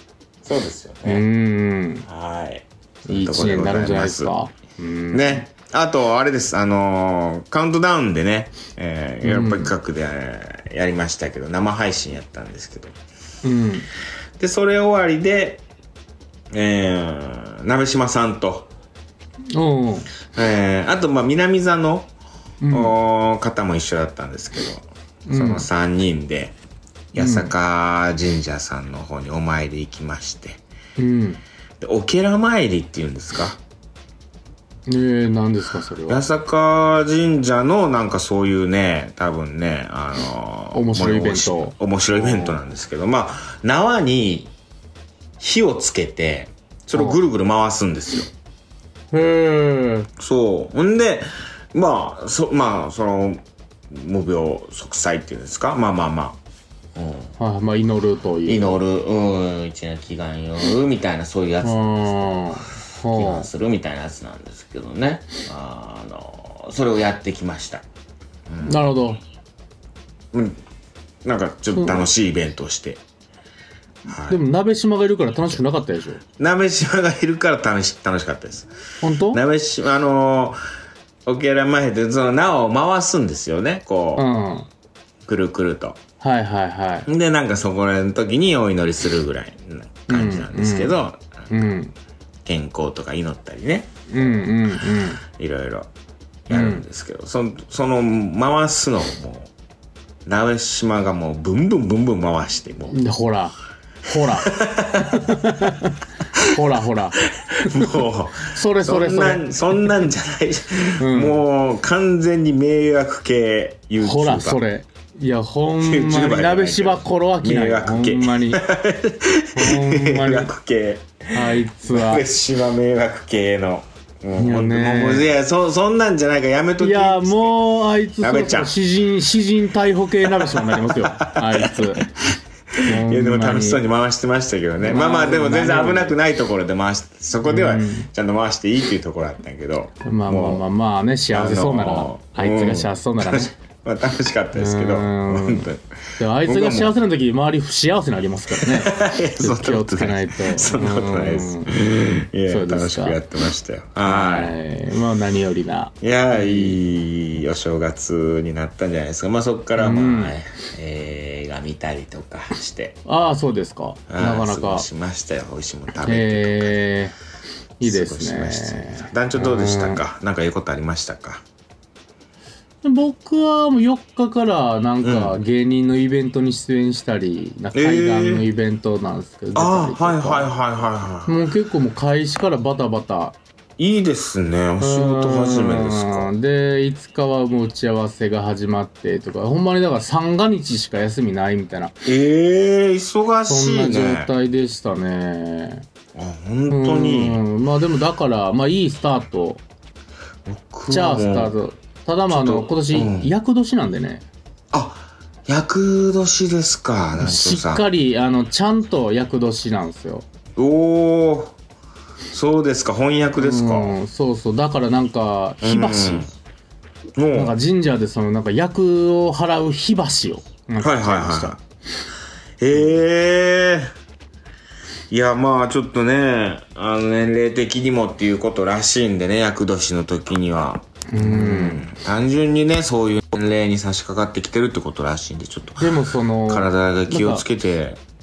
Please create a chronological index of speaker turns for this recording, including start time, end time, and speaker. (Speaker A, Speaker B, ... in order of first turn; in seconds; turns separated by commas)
Speaker A: 0.4-1.2, Speaker B: 1.1-2.1, Speaker A: 2.1-4.3, Speaker B: 3.1-5.5, Speaker A: 5.1-13.0, Speaker B: 9.2-9.7, Speaker B: 13.4-13.9, Speaker A: 14.4-15.6, Speaker A: 16.5-18.7, Speaker B: 19.5-20.1, Speaker A: 20.3-22.1, Speaker B: 22.6-22.9, Speaker A: 22.7-26.6, Speaker B: 25.3-25.7, Speaker A: 27.1-30.6, Speaker B: 27.2-27.5, Speaker B: 31.0-31.4, Speaker A: 31.8-33.6, Speaker B: 34.9-36.2, Speaker A: 36.1-44.5, Speaker B: 40.7-42.6, Speaker A: 45.4-48.3, Speaker B: 49.1-50.1, Speaker A: 50.2-56.4, Speaker A: 57.0-57.3, Speaker B: 57.4-58.8, Speaker A: 58.5-67.8, Speaker B: 61.6-63.5, Speaker A: 68.5-68.8, Speaker B: 68.6-69.2, Speaker A: 70.3-70.6, Speaker A: 71.2-73.0, Speaker B: 71.8-72.1, Speaker A: 74.1-74.4, Speaker B: 74.3-76.2, Speaker A: 76.4-78.7, Speaker B: 79.0-79.4, Speaker A: 79.3-80.6, Speaker A: 81.3-84.3, Speaker B: 84.2-84.7, Speaker A: 85.3-86.0, Speaker B: 86.2-87.1, Speaker A: 87.1-91.5, Speaker B: 90.1-91.0, Speaker B: 91.5-91.9, Speaker A: 92.5-94.3, Speaker B: 94.1-95.2, Speaker A: 95.3-95.9, Speaker A: 96.5-99.5, Speaker B: 96.5-96.8, Speaker A: 100.2-103.0, Speaker B: 102.9-108.0, Speaker A: 104.2-105.4, Speaker A: 107.3-114.6, Speaker B: 108.5-109.8, Speaker B: 111.0-111.4, Speaker B: 114.0-118.6, Speaker A: 115.8-127.6, Speaker B: 119.5-120.5, Speaker B: 121.3-122.3, Speaker B: 124.3-125.3, Speaker B: 126.8-132.1, Speaker A: 128.2-128.7, Speaker A: 130.2-140.6, Speaker B: 132.8-133.8, Speaker B: 134.8-136.1, Speaker B: 137.4-138.1, Speaker B: 140.0-143.5, Speaker A: 141.3-145.8, Speaker B: 144.5-151.7, Speaker A: 146.4-146.9, Speaker A: 148.6-154.6, Speaker B: 152.5-153.2, Speaker B: 154.0-156.8, Speaker A: 156.0-163.0, Speaker B: 159.8-160.4, Speaker B: 163.1-164.9, Speaker A: 164.1-166.8, Speaker B: 166.0-167.2, Speaker B: 167.8-170.0, Speaker A: 167.8-171.4, Speaker B: 172.8-180.5, Speaker A: 175.0-175.4, Speaker A: 177.7-178.5, Speaker A: 179.6-181.4, Speaker B: 181.3-183.4, Speaker A: 183.8-186.3, Speaker B: 184.8-191.9, Speaker A: 192.1-194.3, Speaker B: 193.5-195.9, Speaker A: 196.1-197.4, Speaker B: 196.7-199.6, Speaker A: 200.4-201.5, Speaker B: 200.9-204.3, Speaker A: 202.3-203.3, Speaker A: 204.7-207.8, Speaker B: 207.2-210.3, Speaker A: 210.6-211.5, Speaker A: 212.3-214.0, Speaker B: 213.4-216.3, Speaker A: 215.6-216.3, Speaker A: 217.2-217.6, Speaker B: 217.3-221.6, Speaker A: 220.8-221.6, Speaker A: 222.6-223.9, Speaker A: 225.1-238.0, Speaker B: 231.1-231.9, Speaker B: 235.8-237.4